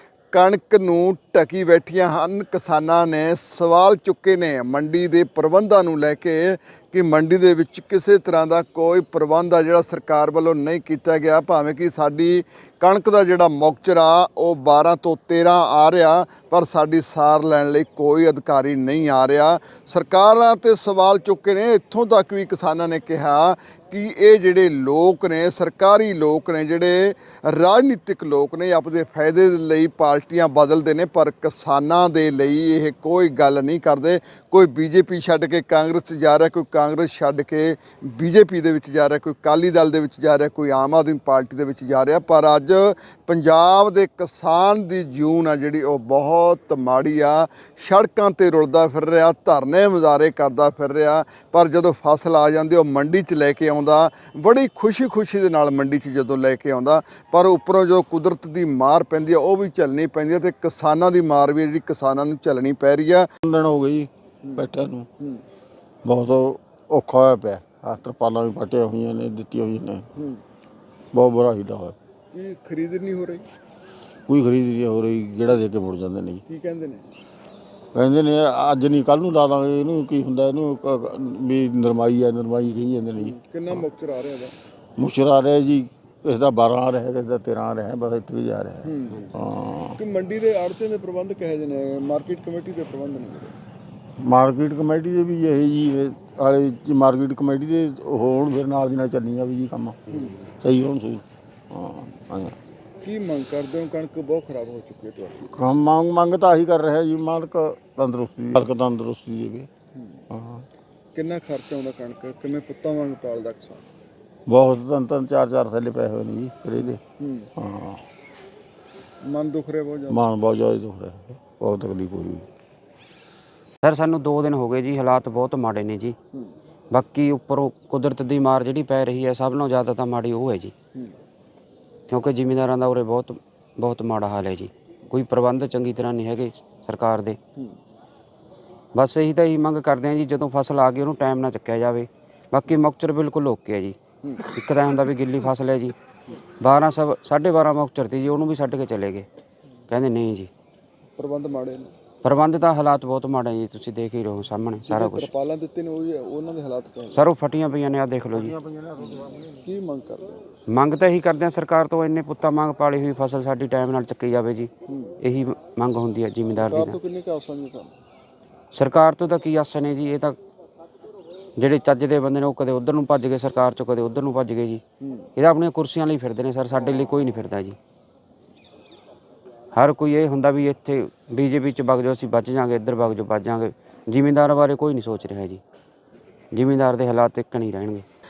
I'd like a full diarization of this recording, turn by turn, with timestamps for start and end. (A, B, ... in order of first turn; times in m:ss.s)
0:00.3-1:03.3 A
1:03.4-1:05.1 B
1:06.0-1:10.1 B
1:11.1-1:12.0 B
1:12.3-1:13.4 A
1:14.3-1:16.4 B
1:16.5-1:17.1 A
1:17.9-1:23.8 B
1:23.2-1:24.5 A
1:25.0-1:30.0 B
1:28.8-1:29.2 A
1:30.0-1:33.5 A
1:34.2-1:40.0 B
1:40.6-1:42.6 B
1:43.0-1:45.4 A
1:45.4-1:49.7 B
1:50.3-1:50.6 B
1:51.1-1:53.8 A
1:54.5-1:57.0 B
1:57.2-1:57.5 A
1:57.6-1:58.0 B
1:59.3-2:00.2 A
2:00.1-2:02.5 B
2:03.8-2:06.2 C
2:06.9-2:10.7 C
2:12.1-2:17.4 C
2:18.9-2:25.9 C
2:26.6-2:29.2 C
2:29.9-2:30.5 C
2:31.2-2:31.9 A
2:32.2-2:35.3 C
2:34.9-2:37.2 A
2:37.1-2:38.5 C
2:38.3-2:39.7 B
2:39.6-2:40.4 A
2:40.7-2:44.7 C
2:44.9-2:45.1 A
2:45.2-2:47.0 C
2:46.6-2:47.9 A
2:48.7-2:50.4 C
2:51.6-2:54.8 C
2:55.4-2:57.8 C
2:59.7-3:05.6 C
3:06.5-3:08.0 C